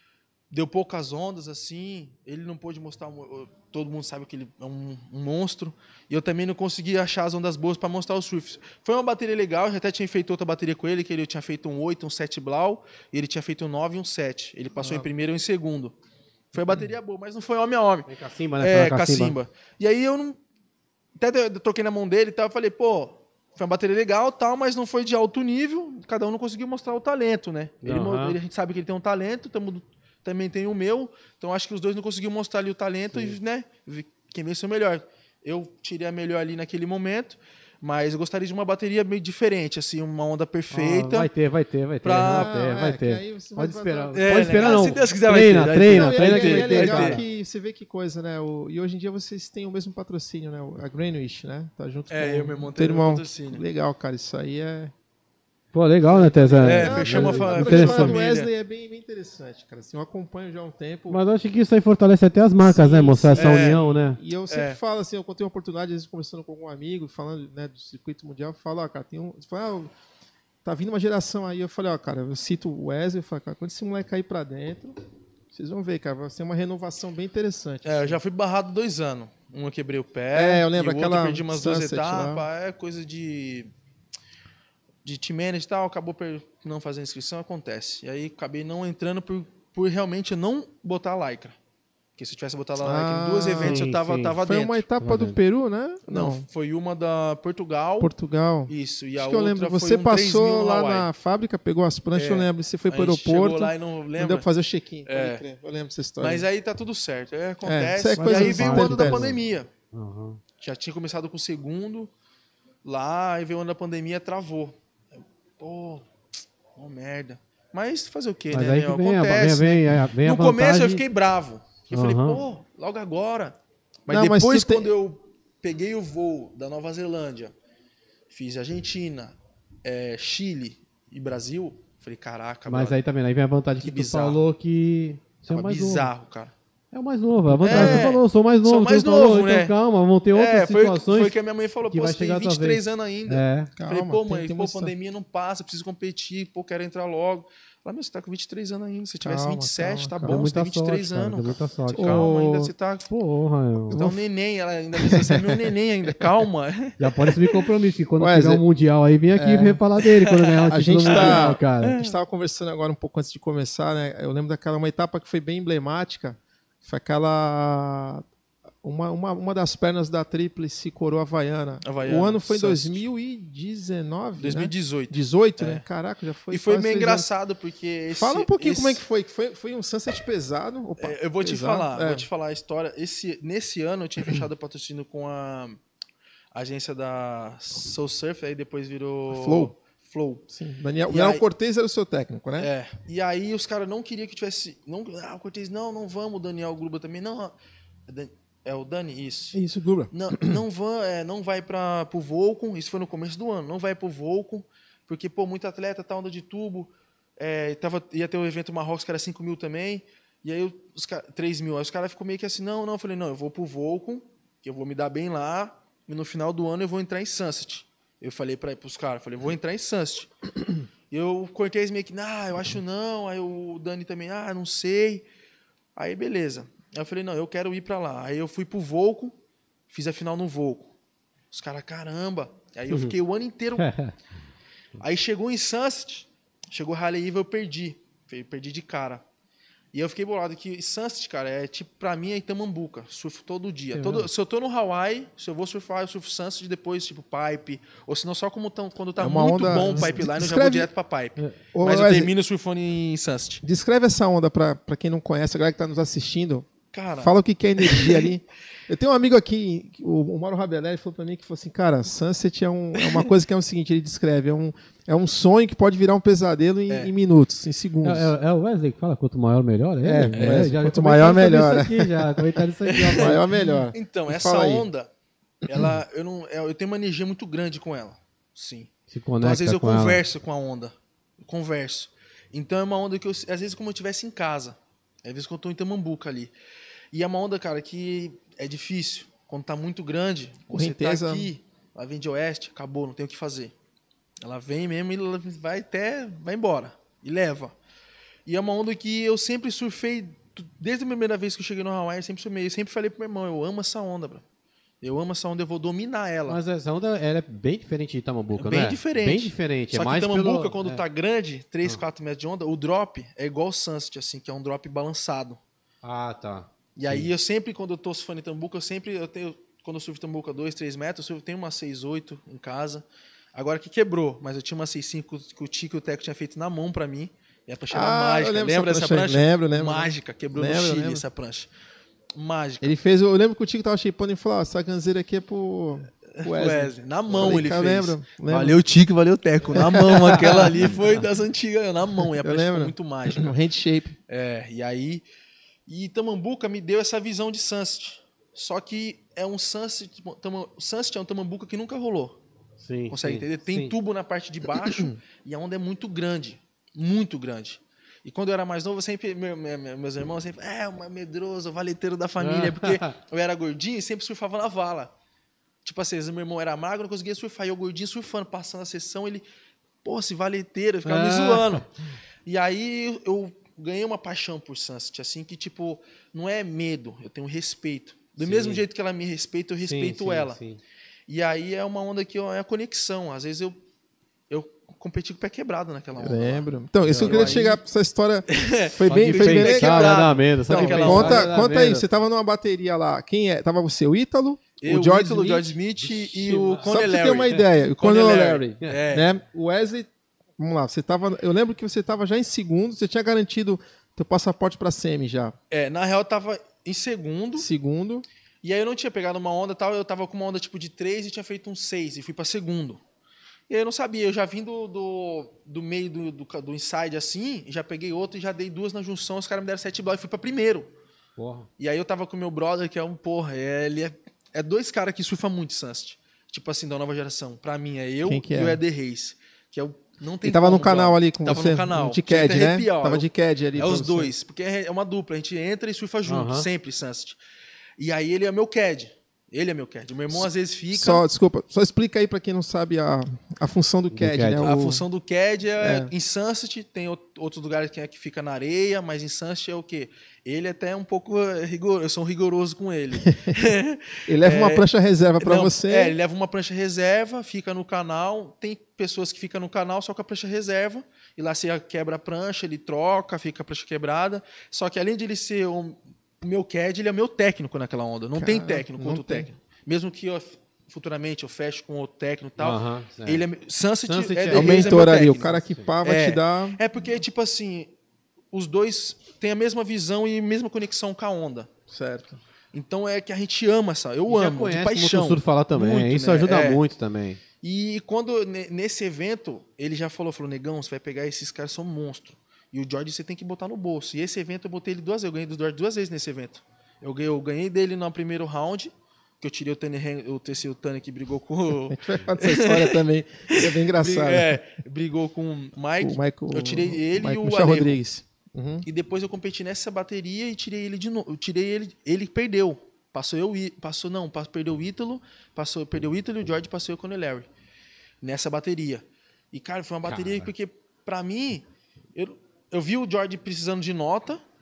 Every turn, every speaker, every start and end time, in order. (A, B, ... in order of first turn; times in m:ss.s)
0:00.5-0:16.0 A
0:14.8-0:15.1 B
0:16.5-0:18.1 A
0:18.1-0:19.4 C
0:18.6-0:20.4 A
0:21.2-0:41.3 A
0:27.8-0:28.4 C
0:40.7-0:47.2 C
0:42.0-0:42.5 A
0:42.2-0:45.0 B
0:44.2-0:47.2 A
0:45.8-0:54.9 B
0:52.1-0:53.6 A
0:55.7-0:58.2 C
0:56.1-1:01.2 B
0:56.6-0:58.5 A
1:01.1-1:04.2 C
1:02.6-1:09.9 B
1:03.4-1:03.9 A
1:04.5-1:04.8 A
1:10.6-1:15.0 B
1:15.5-1:18.2 B
1:17.8-1:23.7 A
1:20.3-1:22.4 B
1:25.0-1:31.6 A
1:32.2-1:34.9 A
1:32.8-1:36.5 B
1:33.6-1:34.4 C
1:35.0-1:35.4 C
1:36.1-1:38.1 A
1:38.0-1:46.5 B
1:38.7-1:41.1 A
1:42.1-1:44.5 A
1:45.1-1:45.4 A
1:46.2-1:49.7 A
1:47.6-1:49.4 B
1:48.2-1:49.4 C
1:49.9-1:50.4 C
1:50.6-1:52.1 A
1:52.8-1:54.8 A
1:55.6-1:56.1 A
1:56.8-2:03.6 A
1:58.5-2:01.0 C
2:01.9-2:02.4 C
2:04.1-2:07.5 A
2:04.1-2:04.9 B
2:08.3-2:13.0 A
2:12.7-2:16.1 C
2:13.8-2:14.4 A
2:15.5-2:16.5 A
2:16.9-2:21.4 C
2:17.5-2:18.1 B
2:17.6-2:19.7 A
2:20.3-2:33.1 A
2:21.9-2:23.7 C
2:23.8-2:24.9 B
2:29.2-2:30.4 B
2:30.2-2:32.3 C
2:31.9-2:32.7 B
2:33.1-2:34.0 C
2:33.9-2:34.2 B
2:33.9-2:37.6 A
2:35.0-2:36.3 B
2:37.0-2:42.0 C
2:38.2-2:38.6 B
2:39.4-2:39.8 B
2:40.1-2:42.2 A
2:40.7-2:48.2 B
2:48.8-2:57.3 B
2:51.8-2:53.0 A
2:54.4-2:55.8 A
2:56.5-2:59.0 A
2:58.1-3:02.3 B
3:01.0-3:05.8 A
3:06.5-3:10.4 A
3:09.3-3:09.7 B
3:10.5-3:12.7 B
3:11.1-3:11.4 A
3:12.6-3:17.5 A
3:18.1-3:19.6 A
3:19.5-3:20.6 B
3:20.1-3:40.5 A
3:41.1-3:45.3 A
3:46.0-3:49.4 A
3:49.9-3:50.9 A
3:51.5-3:53.9 A
3:52.9-3:53.2 C
3:53.8-3:54.1 C
3:55.0-3:59.2 A
3:59.9-4:13.6 A
4:03.9-4:04.3 C
4:09.2-4:10.9 B
4:09.9-4:10.1 C
4:11.7-4:12.3 B
4:13.6-4:28.3 B
4:16.9-4:18.3 A
4:23.0-4:23.3 A
4:28.0-4:33.4 C
4:30.0-4:34.9 B
4:30.3-4:30.7 A
4:32.9-4:35.1 A
4:35.7-4:46.5 A
4:39.1-4:40.2 C
4:47.1-4:53.7 A
4:50.7-4:51.5 B
4:54.4-4:57.7 A
4:58.5-5:04.4 A
5:05.0-5:06.6 A
5:06.5-5:11.0 C
5:08.6-5:15.6 A
5:16.0-5:17.3 C
5:17.0-5:31.7 A
5:27.9-5:31.2 B
5:32.4-5:32.9 A
5:32.8-5:38.8 B
5:36.3-5:43.6 A
5:39.7-5:40.9 B
5:39.9-5:40.3 C
5:42.2-5:44.2 B
5:44.3-5:45.2 A
5:45.9-5:52.4 A
5:52.8-5:54.0 C
5:53.1-6:05.1 A
6:02.4-6:03.2 C
6:05.8-6:09.4 A
6:10.0-6:11.9 A
6:11.0-6:11.9 C
6:12.4-6:20.6 A
6:18.4-6:18.8 C
6:19.8-6:20.8 C
6:21.3-6:23.8 A
6:24.5-6:27.8 A
6:26.2-6:35.8 B
6:27.0-6:27.6 C
6:28.5-6:31.5 A
6:29.1-6:32.0 C
6:34.8-6:39.3 A
6:36.0-6:36.9 C
6:36.8-6:45.6 B
6:45.7-6:47.7 A
6:47.6-6:48.3 B
6:48.6-6:53.0 A
6:53.7-7:00.9 A
7:01.4-7:01.7 C
7:01.8-7:17.4 A
7:08.2-7:08.8 B
7:10.4-7:14.3 B
7:16.3-7:16.7 C
7:18.0-7:21.2 A
7:20.9-7:25.0 B
7:24.1-7:24.7 C
7:24.6-7:34.9 A
7:25.8-7:26.1 B
7:33.2-7:33.6 B
7:34.3-7:36.2 B
7:35.4-7:55.5 A
7:48.4-7:49.5 B
7:52.6-7:53.4 C
7:54.1-7:55.9 C
7:54.5-7:56.8 B
7:56.0-7:57.9 A
7:58.5-8:01.7 A
8:01.9-8:02.4 B
8:02.7-8:06.8 A
8:04.3-8:07.4 C
8:07.6-8:28.0 A
8:21.9-8:24.6 B
8:26.0-8:28.9 B
8:28.8-8:37.5 A
8:38.2-8:44.4 A
8:40.1-8:40.5 C